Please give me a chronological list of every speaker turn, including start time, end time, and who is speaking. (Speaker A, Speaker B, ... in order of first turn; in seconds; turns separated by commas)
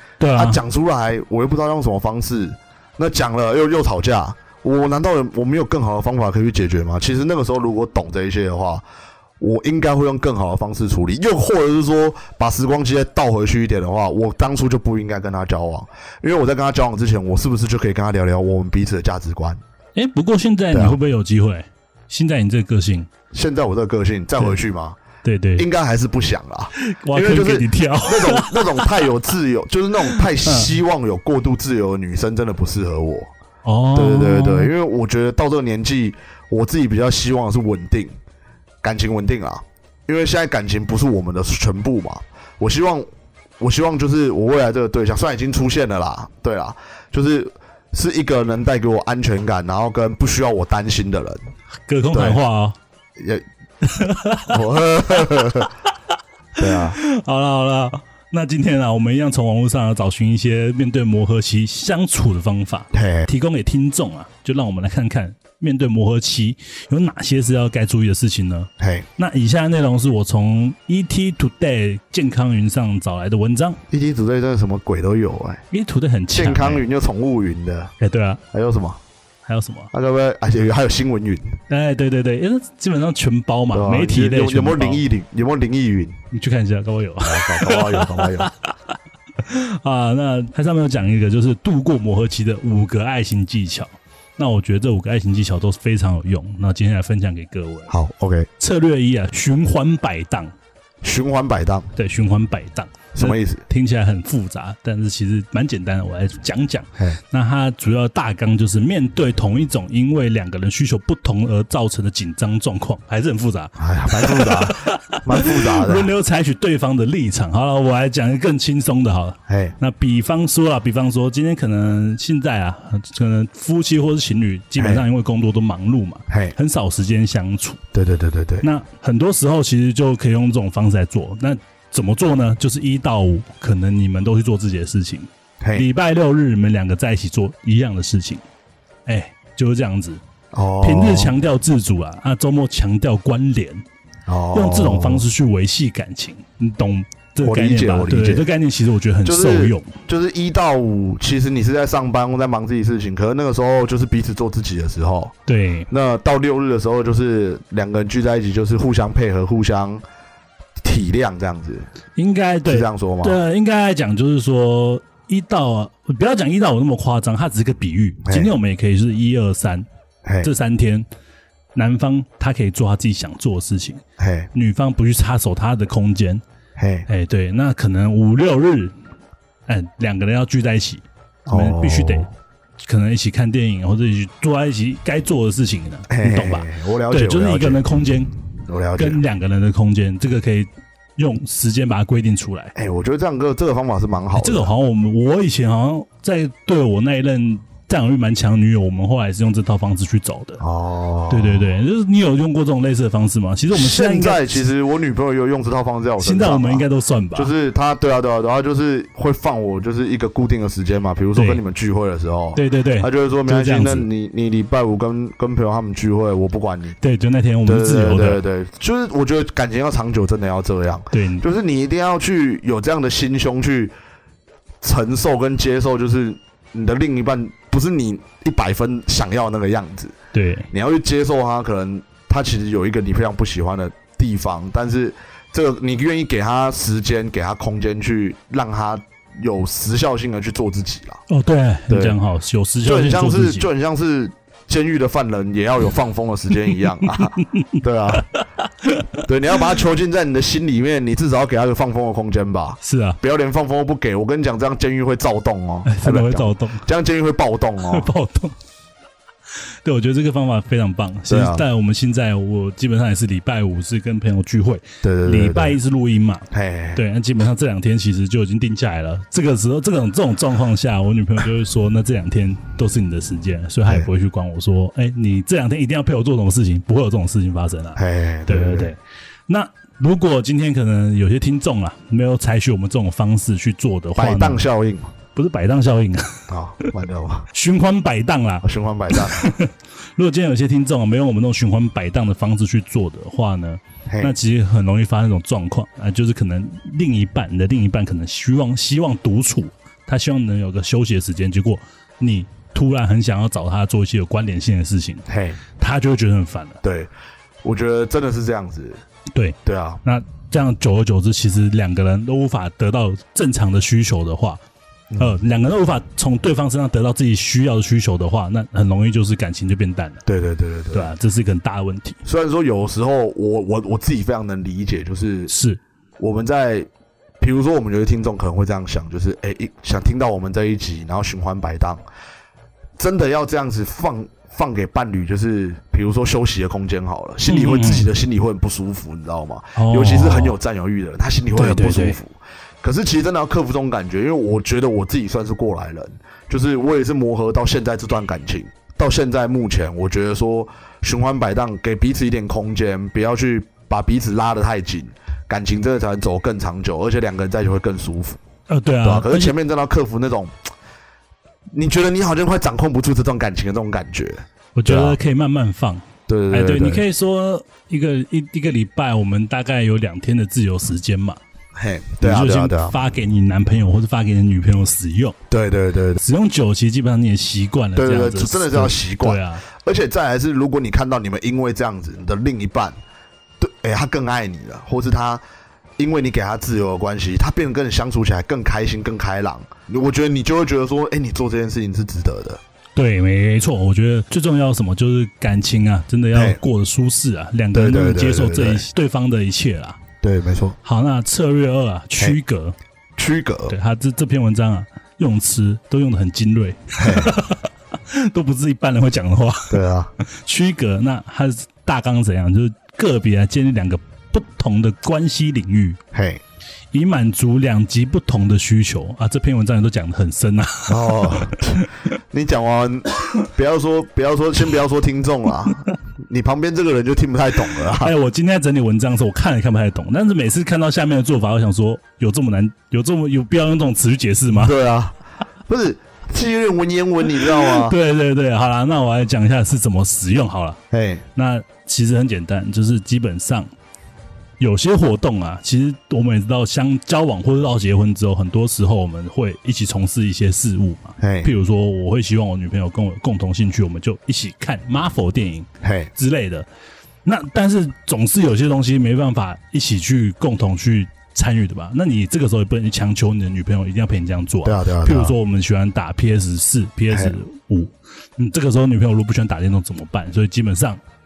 Speaker A: 0.2-0.6, Speaker B: 0.3-8.8, Speaker B: 9.4-19.6, Speaker A: 19.9-23.1, Speaker B: 20.7-21.0, Speaker B: 23.3-25.0, Speaker A: 25.2-25.6, Speaker B: 25.6-33.3, Speaker A: 26.8-29.0, Speaker A: 30.1-30.7, Speaker A: 33.6-34.7, Speaker B: 34.0-38.1, Speaker B: 38.8-43.0, Speaker B: 43.6-51.4, Speaker A: 51.9-52.8, Speaker B: 52.1-52.4, Speaker B: 53.2-53.4, Speaker A: 53.8-54.6, Speaker B: 54.5-55.7, Speaker A: 55.2-55.6, Speaker B: 56.6-57.0, Speaker A: 56.7-73.8, Speaker B: 62.9-63.3, Speaker B: 68.8-69.1, Speaker B: 73.9-75.6, Speaker A: 75.7-76.8, Speaker B: 76.3-77.9, Speaker A: 78.0-78.4, Speaker B: 78.5-79.0, Speaker A: 79.5-79.9, Speaker B: 79.9-81.6, Speaker A: 81.7-85.0, Speaker B: 83.7-86.2, Speaker A: 86.3-88.7, Speaker B: 87.2-88.5, Speaker A: 89.4-97.9, Speaker B: 97.9-98.5, Speaker A: 98.6-100.5, Speaker B: 101.0-101.9, Speaker A: 102.0-127.8, Speaker B: 103.1-103.6, Speaker B: 113.8-116.1, Speaker B: 119.5-119.8, Speaker B: 124.8-125.0, Speaker B: 126.3-126.5, Speaker B: 127.9-128.7, Speaker A: 128.6-138.4, Speaker B: 135.6-135.9, Speaker A: 139.1-140.2, Speaker B: 140.5-141.3, Speaker A: 140.8-143.8, Speaker B: 144.3-145.2, Speaker A: 144.5-149.9, Speaker B: 147.4-148.5, Speaker B: 149.2-155.3, Speaker A: 155.5-155.9, Speaker B: 155.9-160.0, Speaker B: 160.8-161.9, Speaker A: 162.2-169.9, Speaker B: 162.6-163.4, Speaker B: 168.2-168.5, Speaker B: 170.2-170.5, Speaker A: 170.4-171.1, Speaker A: 171.8-174.0, Speaker B: 174.2-174.5, Speaker A: 174.5-176.4, Speaker B: 176.8-177.1, Speaker A: 177.1-178.9, Speaker A: 179.7-182.3, Speaker B: 181.5-182.3, Speaker A: 182.8-188.3, Speaker B: 186.1-188.0, Speaker B: 188.6-189.2, Speaker A: 189.0-192.7, Speaker B: 192.8-194.7, Speaker A: 194.4-200.6, Speaker B: 200.6-201.7, Speaker A: 201.3-204.6, Speaker B: 203.7-217.0, Speaker A: 206.2-207.5, Speaker A: 211.3-211.6, Speaker A: 212.5-214.1, Speaker A: 217.0-218.4, Speaker B: 217.6-223.9, Speaker A: 221.1-221.4, Speaker B: 224.8-230.1, Speaker A: 230.3-230.7, Speaker B: 230.7-241.2, Speaker A: 241.3-243.7, Speaker B: 241.9-242.2, Speaker B: 242.8-248.3, Speaker A: 247.2-249.2, Speaker B: 249.3-258.1, Speaker A: 252.8-253.2, Speaker A: 255.8-256.9, Speaker A: 257.9-258.6, Speaker A: 259.8-284.6, Speaker B: 261.3-261.6, Speaker B: 265.0-265.8, Speaker B: 266.5-267.0, Speaker B: 277.9-278.9, Speaker B: 284.2-285.1, Speaker A: 285.4-286.9, Speaker B: 286.5-287.5, Speaker A: 287.5-305.3, Speaker B: 288.6-289.5, Speaker B: 294.1-294.3, Speaker B: 305.3-305.6, Speaker A: 305.8-306.8, Speaker B: 306.8-307.1, Speaker B: 307.6-309.0, Speaker A: 309.4-314.6, Speaker B: 309.6-310.0, Speaker B: 315.1-315.4, Speaker A: 315.2-320.2, Speaker B: 320.3-321.1, Speaker A: 320.9-322.2, Speaker B: 322.2-325.5, Speaker A: 325.5-325.8, Speaker B: 326.2-326.9, Speaker B: 327.4-332.0, Speaker B: 333.0-358.4, Speaker A: 337.4-338.1, Speaker A: 339.8-340.6, Speaker A: 341.6-342.2, Speaker A: 358.7-359.6, Speaker B: 359.0-360.6, Speaker B: 361.7-365.2, Speaker A: 364.7-371.4, Speaker B: 366.3-367.0, Speaker B: 371.7-372.9, Speaker A: 372.2-375.4, Speaker B: 375.5-376.2, Speaker A: 376.2-379.6, Speaker B: 377.9-382.9, Speaker B: 383.6-385.4, Speaker B: 386.0-392.6, Speaker A: 392.9-400.0, Speaker B: 397.7-398.8, Speaker B: 400.2-400.8, Speaker A: 400.8-402.8, Speaker B: 403.2-403.7, Speaker A: 403.7-416.0, Speaker B: 407.0-407.4, Speaker B: 409.7-410.1, Speaker B: 416.1-416.4, Speaker A: 416.9-421.9, Speaker B: 420.9-428.1, Speaker A: 427.9-434.8, Speaker B: 434.6-435.2, Speaker B: 435.7-437.9, Speaker A: 437.6-440.8, Speaker B: 440.9-441.2, Speaker A: 441.4-443.7, Speaker A: 444.6-456.7, Speaker B: 451.2-451.5, Speaker B: 455.8-456.1, Speaker A: 457.2-471.0, Speaker B: 464.6-465.4